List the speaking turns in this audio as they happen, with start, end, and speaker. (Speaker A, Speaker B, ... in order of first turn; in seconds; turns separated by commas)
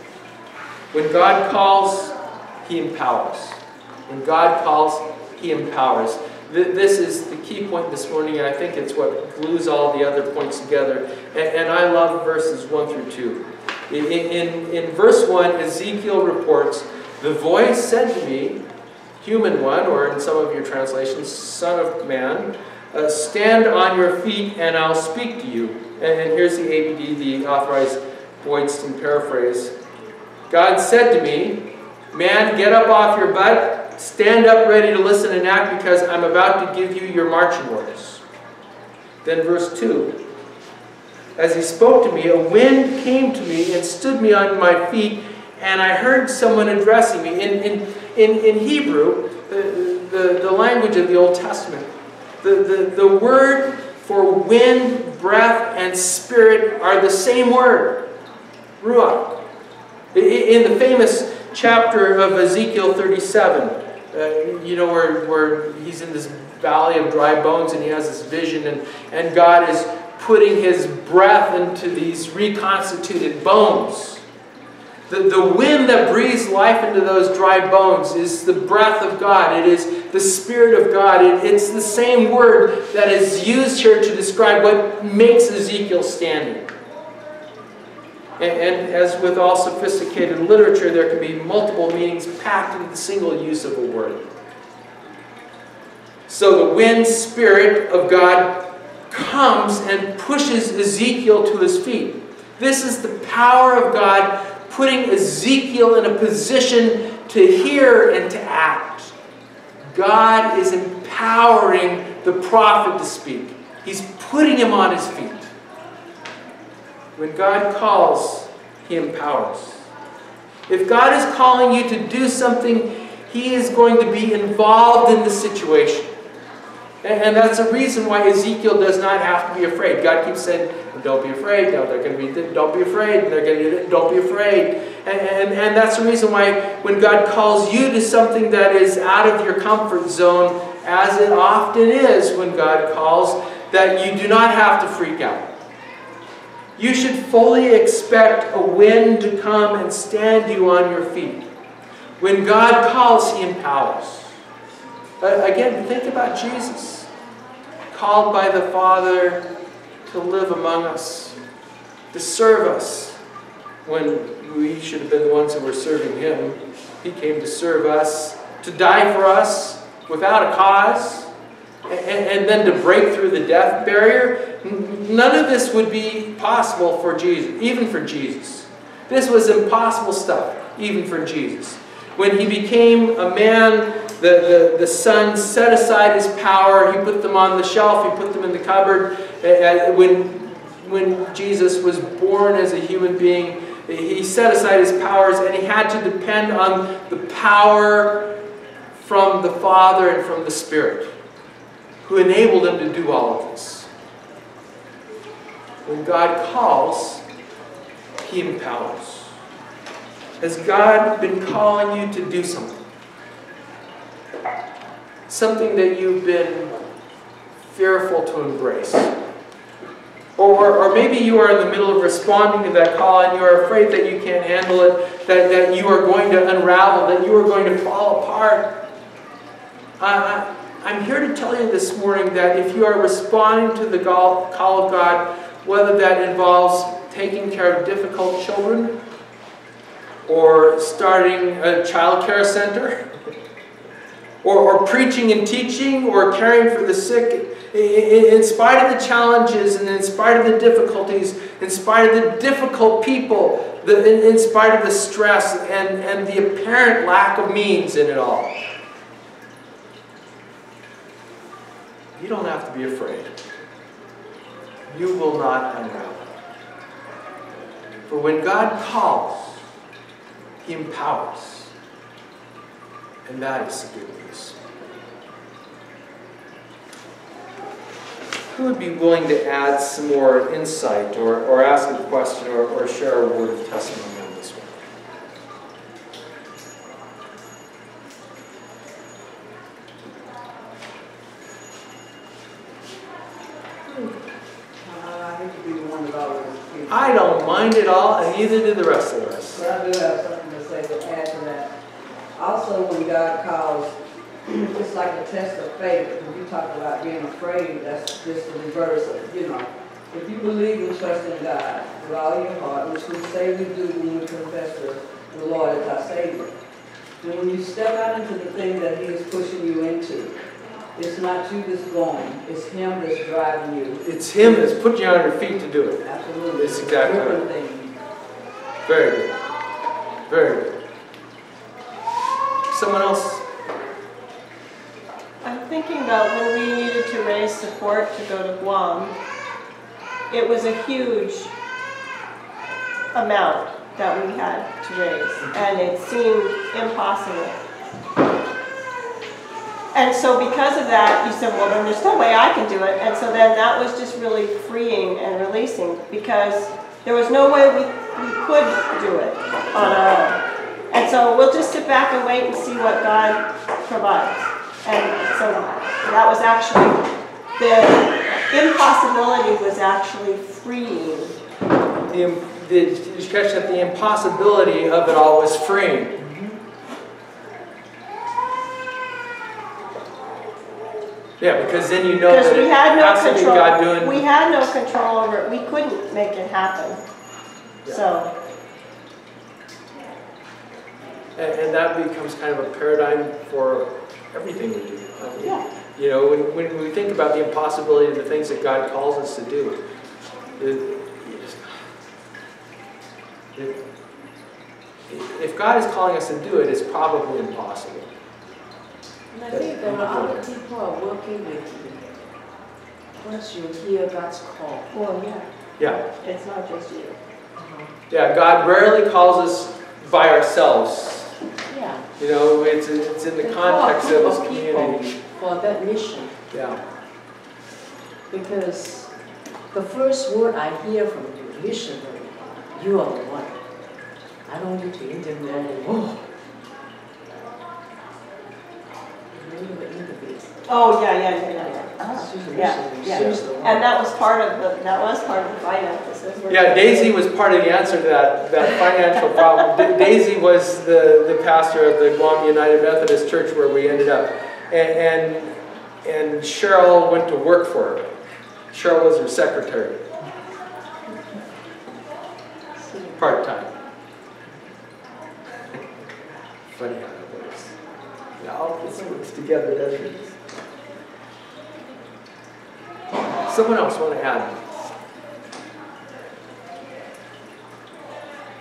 Speaker A: 0.9-18.6, Speaker A: 19.2-29.7, Speaker A: 30.5-38.2, Speaker A: 39.2-40.1, Speaker A: 41.4-51.9, Speaker A: 52.4-58.1, Speaker A: 58.8-59.4, Speaker A: 60.1-74.2, Speaker A: 75.1-86.7, Speaker A: 88.4-94.2, Speaker A: 96.3-109.1, Speaker A: 109.8-115.5, Speaker A: 117.2-119.9, Speaker A: 120.7-126.1, Speaker A: 127.0-145.5, Speaker A: 146.8-151.4, Speaker A: 152.2-154.3, Speaker A: 155.2-157.1, Speaker A: 157.9-159.4, Speaker A: 160.1-161.4, Speaker A: 162.1-163.2, Speaker A: 163.8-171.3, Speaker A: 171.9-198.3, Speaker A: 198.9-201.1, Speaker A: 202.0-203.9, Speaker A: 205.8-207.2, Speaker A: 208.2-209.3, Speaker A: 210.4-212.8, Speaker A: 215.3-216.8, Speaker A: 217.7-219.1, Speaker A: 220.3-228.8, Speaker A: 230.0-238.9, Speaker A: 240.2-243.1, Speaker A: 244.4-258.5, Speaker A: 262.1-263.3, Speaker A: 264.9-266.3, Speaker A: 268.1-269.6, Speaker A: 270.6-271.7, Speaker A: 273.2-274.6, Speaker A: 278.5-284.8, Speaker A: 293.9-294.2, Speaker B: 294.8-297.8, Speaker A: 296.9-299.6, Speaker B: 299.5-301.7, Speaker B: 302.4-316.5, Speaker B: 317.2-320.4, Speaker B: 320.9-324.8, Speaker A: 324.0-326.0, Speaker B: 326.0-327.9, Speaker A: 326.6-327.4, Speaker A: 328.8-329.4, Speaker A: 330.3-330.8, Speaker A: 332.7-333.4, Speaker C: 335.4-339.1, Speaker C: 340.3-341.5, Speaker C: 343.1-347.6, Speaker C: 349.9-367.0, Speaker C: 367.6-371.4, Speaker A: 372.1-376.2, Speaker A: 381.4-384.2, Speaker C: 382.3-387.0, Speaker C: 387.9-388.3, Speaker A: 391.4-399.8, Speaker A: 400.6-401.7, Speaker A: 405.1-408.1, Speaker D: 409.3-412.0, Speaker A: 409.5-410.4, Speaker D: 413.2-414.9, Speaker C: 414.9-417.2, Speaker D: 417.6-417.9, Speaker A: 418.1-421.3, Speaker D: 421.7-422.1, Speaker A: 422.2-425.2, Speaker D: 423.4-426.4, Speaker A: 426.5-426.8, Speaker D: 428.3-429.1, Speaker D: 429.7-433.6, Speaker D: 434.4-436.2, Speaker D: 439.3-440.5, Speaker C: 440.7-447.1, Speaker D: 441.5-443.8, Speaker A: 443.1-443.4, Speaker A: 446.5-458.1, Speaker A: 458.7-460.1, Speaker A: 463.1-463.7, Speaker A: 466.7-467.8, Speaker A: 468.4-470.3, Speaker A: 473.5-474.6